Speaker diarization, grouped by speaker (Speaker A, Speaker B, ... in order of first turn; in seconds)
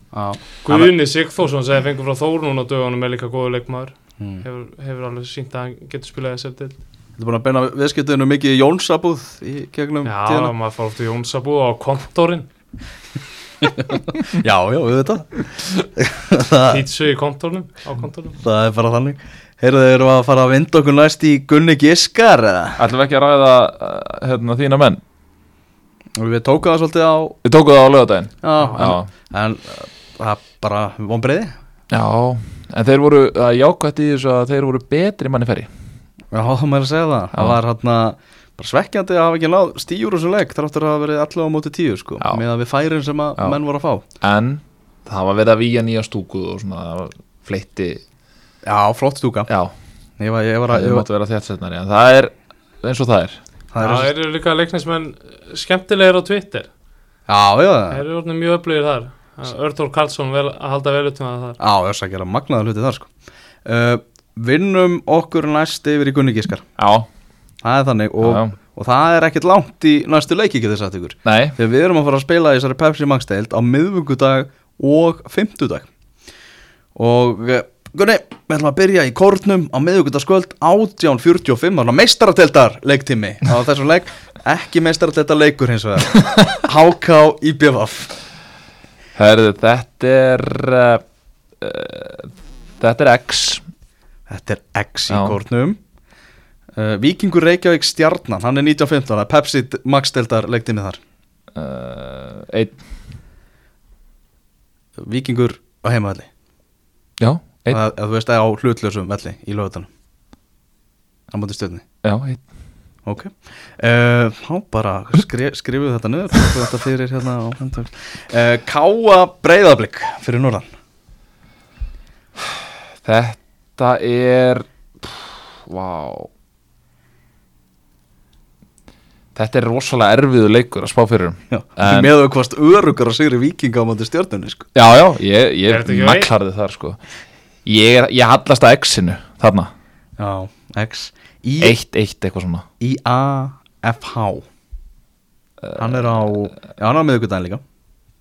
Speaker A: 0.1-0.4, 7.2-10.5, 13.6-16.8, 18.4-22.8, 26.2-27.4, 28.4-31.5, 36.3-44.0, 48.6-49.5, 50.2-51.0, 53.7-54.1, 57.3-58.0, 61.6-63.1, 63.6-66.6, 67.6-75.9, 77.0-88.1, 94.3-95.8, 96.8-101.0, 105.0-106.3, 107.7-109.9, 111.3-111.8, 113.0-120.7, 131.5-134.7, 140.2-141.8, 142.8-144.4, 145.7-147.6
Speaker B: 0.6-6.8, 10.0-12.5, 16.7-18.4, 53.8-56.7, 57.9-61.6, 135.7-136.3
Speaker C: 0.7-0.9, 22.8-25.0, 27.4-29.1, 31.9-35.7, 37.3-37.6, 44.2-48.0, 49.5-49.7, 50.7-53.4, 66.8-67.1, 68.2-68.5, 71.2-71.6, 89.2-91.0, 91.6-93.6, 95.1-95.4, 101.5-102.8, 107.2-107.8, 112.0-112.4, 122.4-126.3, 129.3-132.1, 134.7-137.0, 137.6-139.7, 141.6-142.6, 145.6-146.6